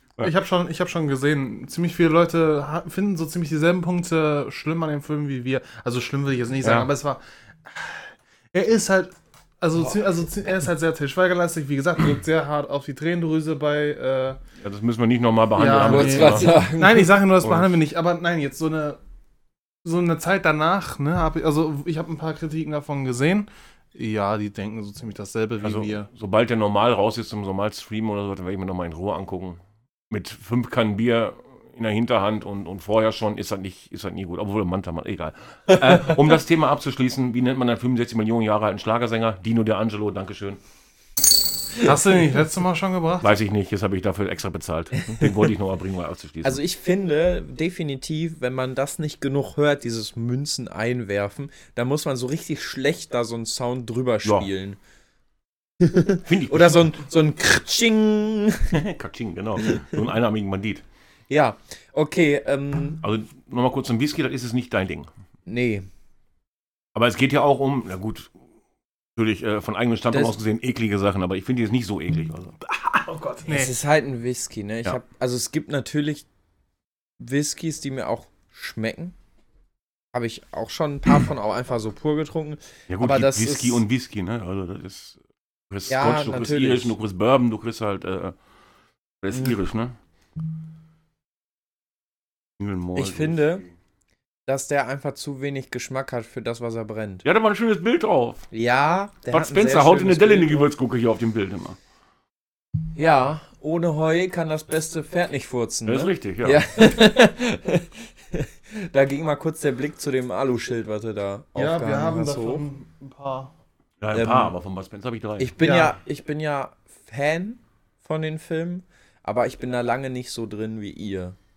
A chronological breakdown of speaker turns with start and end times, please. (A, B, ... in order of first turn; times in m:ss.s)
0:00.2-0:14.4 A
0:06.6-0:06.9 B
0:14.6-0:16.7 B
0:15.6-0:19.0 A
0:15.8-0:17.2 C
0:17.4-0:17.8 B
0:19.8-0:26.1 A
0:25.6-0:40.6 B
0:35.9-0:36.2 C
0:41.8-0:43.3 A
0:43.2-0:46.6 B
0:46.4-0:54.8 C
0:55.8-0:58.8 C
0:56.2-0:56.8 B
0:58.7-1:00.8 B
0:59.6-1:00.0 C
1:01.3-1:03.0 C
1:03.0-1:05.1 B
1:05.5-1:05.9 C
1:07.0-1:08.3 B
1:09.2-1:13.4 B
1:10.1-1:10.4 C
1:13.4-1:13.7 A
1:13.5-1:16.3 C
1:17.2-1:19.2 C
1:20.1-1:23.8 C
1:22.9-1:28.4 B
1:25.9-1:26.9 C
1:29.2-1:30.0 B
1:32.6-1:33.5 B
1:33.0-1:33.7 C
1:34.5-1:37.2 C
1:37.2-1:38.5 B
1:38.5-1:40.7 C
1:39.3-1:41.8 B
1:42.9-1:52.7 C
1:45.9-1:46.6 B
1:51.6-1:53.5 A
1:54.0-1:55.5 B
1:54.1-1:54.5 C
1:55.4-2:01.4 C
1:55.6-1:56.0 A